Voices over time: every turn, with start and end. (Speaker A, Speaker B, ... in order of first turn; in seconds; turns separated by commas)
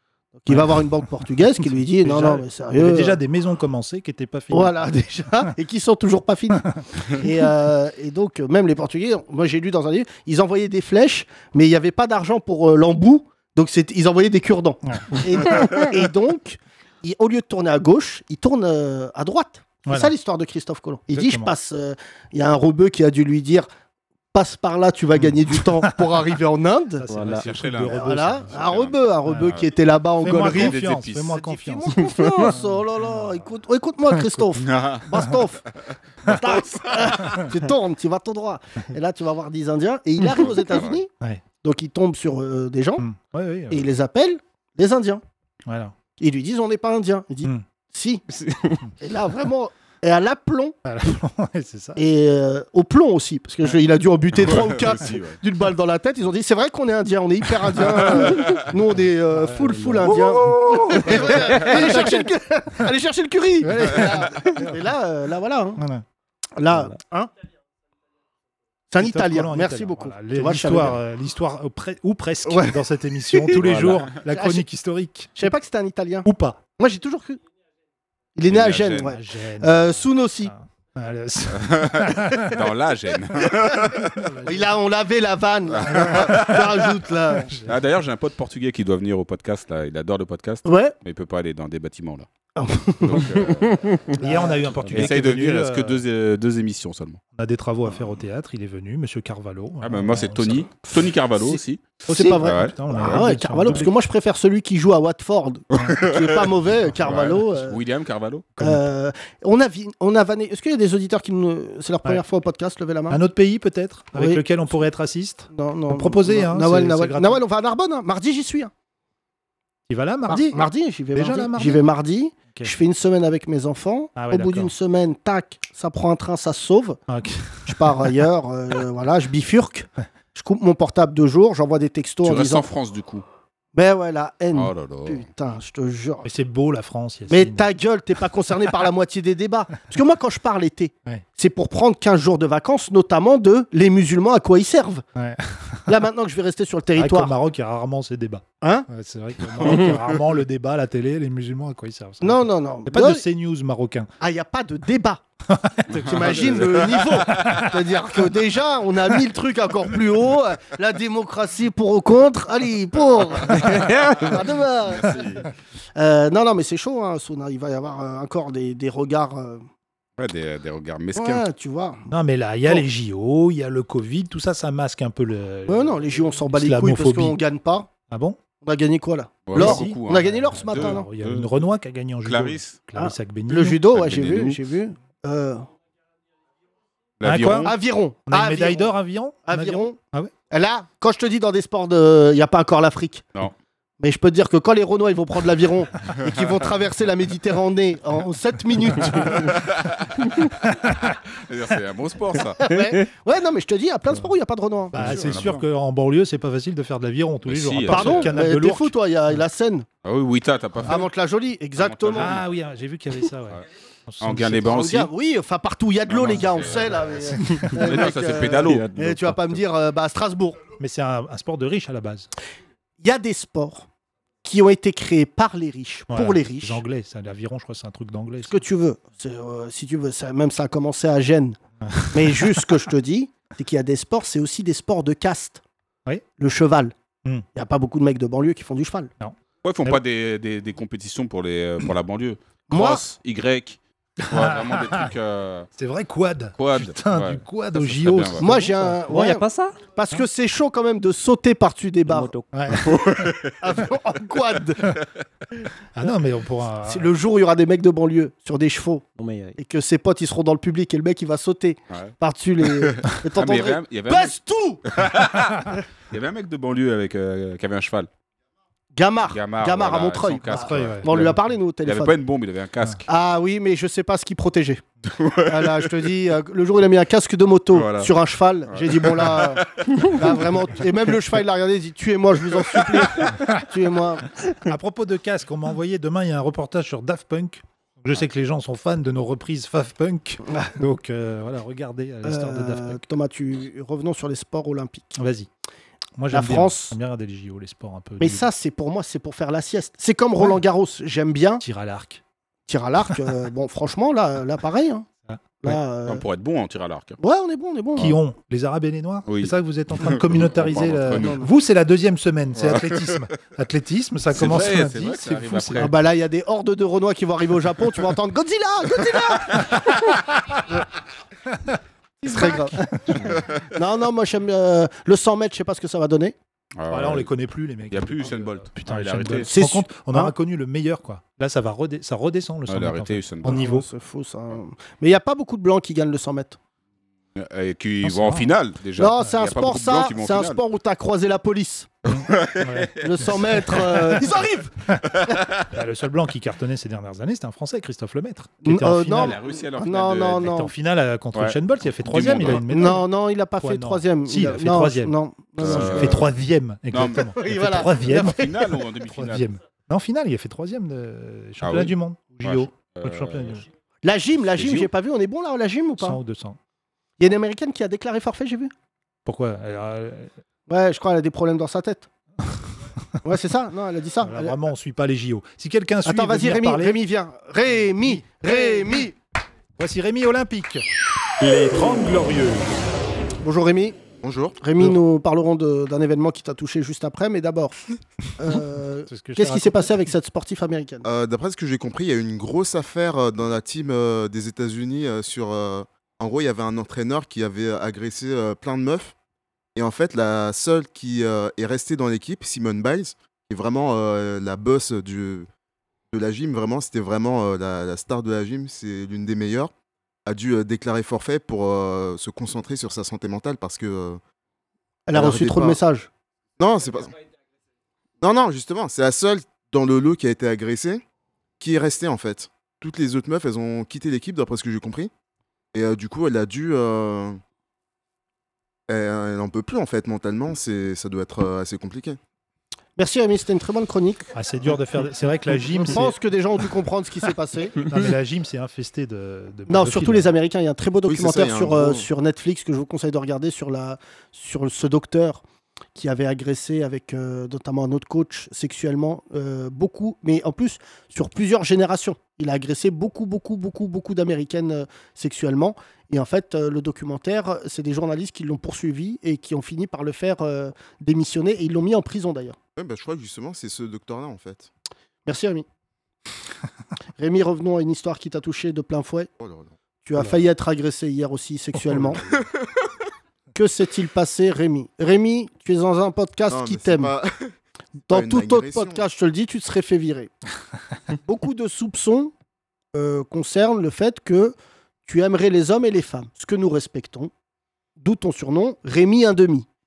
Speaker A: 0.4-3.2, Speaker B: 0.5-5.5, Speaker A: 4.5-23.7, Speaker B: 14.9-15.7, Speaker B: 19.9-20.1, Speaker B: 21.1-21.5, Speaker A: 24.3-27.1, Speaker B: 25.2-26.0, Speaker B: 27.0-28.5, Speaker C: 27.1-27.5, Speaker D: 27.3-29.7, Speaker A: 27.9-35.6, Speaker B: 29.3-29.6, Speaker B: 30.2-33.4, Speaker D: 30.3-31.4, Speaker D: 34.6-35.4, Speaker A: 36.2-41.1, Speaker D: 40.4-41.0, Speaker A: 41.6-43.0, Speaker B: 43.0-43.9, Speaker A: 43.7-45.2, Speaker B: 45.7-46.0, Speaker A: 46.2-48.2, Speaker C: 48.3-48.8, Speaker A: 49.0-50.8, Speaker B: 50.9-52.0, Speaker A: 52.0-65.8, Speaker D: 54.3-55.4, Speaker D: 58.2-58.6, Speaker B: 59.3-62.3, Speaker B: 63.6-64.8, Speaker B: 65.8-66.0, Speaker A: 66.6-67.3, Speaker A: 68.9-71.0, Speaker B: 69.0-75.5, Speaker A: 72.5-72.8, Speaker A: 73.3-74.7, Speaker C: 73.6-74.1, Speaker A: 75.4-77.4, Speaker B: 76.3-76.6, Speaker A: 78.4-80.5, Speaker D: 78.5-79.2, Speaker B: 79.0-82.7, Speaker D: 81.5-84.3, Speaker B: 84.1-84.7, Speaker A: 84.4-87.5, Speaker D: 85.7-86.9, Speaker B: 87.5-87.8, Speaker D: 87.6-92.3, Speaker A: 90.7-91.0, Speaker A: 92.6-93.4, Speaker D: 93.0-94.0, Speaker B: 94.2-96.0, Speaker A: 94.2-94.6, Speaker D: 94.9-97.2, Speaker B: 97.3-100.7, Speaker D: 99.8-101.9, Speaker A: 101.4-107.8, Speaker B: 102.1-103.9, Speaker D: 102.4-103.3, Speaker D: 105.7-106.4, Speaker D: 107.0-108.5, Speaker B: 107.1-107.4, Speaker B: 108.6-108.8, Speaker A: 108.6-113.2, Speaker B: 113.1-117.4, Speaker A: 114.1-114.4, Speaker A: 115.5-118.7, Speaker B: 119.9-120.6, Speaker A: 120.3-127.0, Speaker B: 121.1-121.9, Speaker B: 124.2-124.7, Speaker B: 127.1-128.1, Speaker A: 127.7-132.7, Speaker D: 132.2-133.2, Speaker A: 133.7-136.3, Speaker D: 134.5-135.2, Speaker B: 136.2-137.7, Speaker A: 137.3-145.0, Speaker B: 145.2-145.9, Speaker A: 145.9-147.3, Speaker B: 147.0-154.1, Speaker A: 148.6-148.9, Speaker A: 152.2-153.2, Speaker A: 154.2-155.2, Speaker B: 155.5-157.7, Speaker D: 155.9-157.6, Speaker A: 156.0-165.2, Speaker D: 164.0-165.5, Speaker A: 166.0-169.6, Speaker D: 170.2-171.4, Speaker A: 171.2-172.1, Speaker B: 172.1-177.4, Speaker A: 175.7-177.9, Speaker B: 178.1-178.4, Speaker A: 178.6-181.1, Speaker D: 179.5-181.5, Speaker B: 179.5-183.8, Speaker D: 182.2-182.8, Speaker A: 183.0-185.7, Speaker D: 183.8-184.6, Speaker D: 187.2-187.8, Speaker B: 187.2-187.8, Speaker A: 187.6-188.9, Speaker B: 188.3-190.3, Speaker A: 189.5-190.0, Speaker A: 190.5-193.3, Speaker A: 194.0-199.6, Speaker D: 196.2-196.4, Speaker D: 199.1-202.7, Speaker A: 202.6-205.3, Speaker B: 204.9-209.0, Speaker D: 204.9-205.7, Speaker D: 207.5-208.3, Speaker A: 207.9-209.9, Speaker D: 210.0-211.1, Speaker A: 210.9-212.4, Speaker D: 211.8-212.5, Speaker B: 212.1-214.8, Speaker D: 214.2-215.1, Speaker A: 214.7-220.6, Speaker D: 216.1-219.0, Speaker B: 220.8-222.3, Speaker A: 223.0-223.9, Speaker A: 224.4-226.8, Speaker B: 226.1-228.6, Speaker A: 228.5-231.6, Speaker B: 231.8-232.8, Speaker A: 232.1-235.6, Speaker A: 236.4-236.9, Speaker A: 237.6-239.1, Speaker B: 239.2-240.0, Speaker D: 239.6-245.7, Speaker A: 242.7-243.0, Speaker B: 244.2-245.1, Speaker B: 245.8-249.0, Speaker D: 246.6-248.5, Speaker A: 248.4-249.4, Speaker C: 249.1-249.8, Speaker A: 249.9-252.3, Speaker C: 252.1-252.5, Speaker B: 252.5-253.0, Speaker D: 252.7-253.6, Speaker A: 253.6-254.9, Speaker B: 255.9-257.1, Speaker A: 256.9-259.0, Speaker C: 259.2-259.6, Speaker A: 259.6-264.8, Speaker D: 261.9-264.4, Speaker D: 264.9-268.1, Speaker A: 268.9-272.1, Speaker D: 269.3-273.1, Speaker B: 270.5-271.1, Speaker A: 273.1-274.8, Speaker D: 275.1-275.9, Speaker A: 275.4-284.3, Speaker D: 277.7-278.1, Speaker D: 278.7-280.3, Speaker D: 282.8-283.1, Speaker B: 284.6-293.0, Speaker A: 290.5-290.7, Speaker A: 292.2-295.1, Speaker B: 295.2-295.5, Speaker B: 296.2-298.5, Speaker A: 296.3-297.0, Speaker A: 298.2-301.6, Speaker B: 301.6-302.2, Speaker A: 302.7-305.1, Speaker A: 305.6-306.2, Speaker D: 306.1-307.2, Speaker A: 307.2-308.1, Speaker B: 308.0-315.9, Speaker D: 309.3-311.4, Speaker A: 311.1-311.5, Speaker D: 312.6-313.2, Speaker D: 314.3-315.9, Speaker A: 315.8-319.9, Speaker A: 322.2-326.4, Speaker B: 322.2-323.3, Speaker D: 323.1-323.5, Speaker D: 326.8-327.3, Speaker B: 326.9-333.9, Speaker D: 327.9-329.5, Speaker A: 329.5-330.4, Speaker D: 332.7-333.6, Speaker A: 333.4-336.6, Speaker D: 337.4-340.6, Speaker B: 338.0-338.5, Speaker A: 339.0-341.9, Speaker D: 342.1-344.2, Speaker B: 342.1-343.0, Speaker A: 343.0-344.7, Speaker D: 345.2-345.6, Speaker B: 345.6-349.4, Speaker A: 348.6-350.7, Speaker D: 349.1-350.6, Speaker B: 350.4-363.7, Speaker D: 351.3-353.0, Speaker A: 352.4-356.2, Speaker D: 355.6-356.3, Speaker D: 356.9-357.3, Speaker A: 357.3-358.4, Speaker D: 358.0-359.4, Speaker D: 361.6-363.6, Speaker A: 364.0-366.2, Speaker D: 364.6-364.9, Speaker B: 366.0-366.6, Speaker A: 367.2-368.7, Speaker B: 369.2-370.3, Speaker A: 370.7-372.1, Speaker A: 373.2-374.6, Speaker B: 374.2-377.0, Speaker A: 376.1-379.2, Speaker B: 378.0-378.8, Speaker B: 379.8-380.9, Speaker B: 381.5-382.6, Speaker A: 383.4-384.0, Speaker E: 384.2-384.6, Speaker A: 384.6-387.8, Speaker A: 388.4-391.1, Speaker B: 389.1-390.0, Speaker E: 391.1-399.1, Speaker E: 399.8-405.5, Speaker E: 406.1-409.7, Speaker E: 410.3-414.2, Speaker A: 415.1-416.1, Speaker E: 415.1-415.8, Speaker E: 416.6-417.2, Speaker E: 418.2-421.0, Speaker E: 421.6-425.1, Speaker E: 425.7-427.4, Speaker E: 428.9-432.2, Speaker A: 433.0-434.3, Speaker B: 434.4-436.1, Speaker A: 435.9-437.9, Speaker B: 437.8-440.4, Speaker A: 439.7-445.4, Speaker E: 441.1-442.1, Speaker A: 445.9-462.6, Speaker E: 462.8-464.7, Speaker A: 465.3-465.7, Speaker A: 467.2-469.3, Speaker E: 469.4-469.8, Speaker A: 470.0-472.3, Speaker B: 471.9-472.2, Speaker A: 473.6-477.1, Speaker E: 476.5-477.5, Speaker A: 478.1-480.3, Speaker E: 478.1-479.1, Speaker A: 481.1-482.3, Speaker A: 482.9-484.6, Speaker A: 485.1-487.3, Speaker A: 488.0-489.7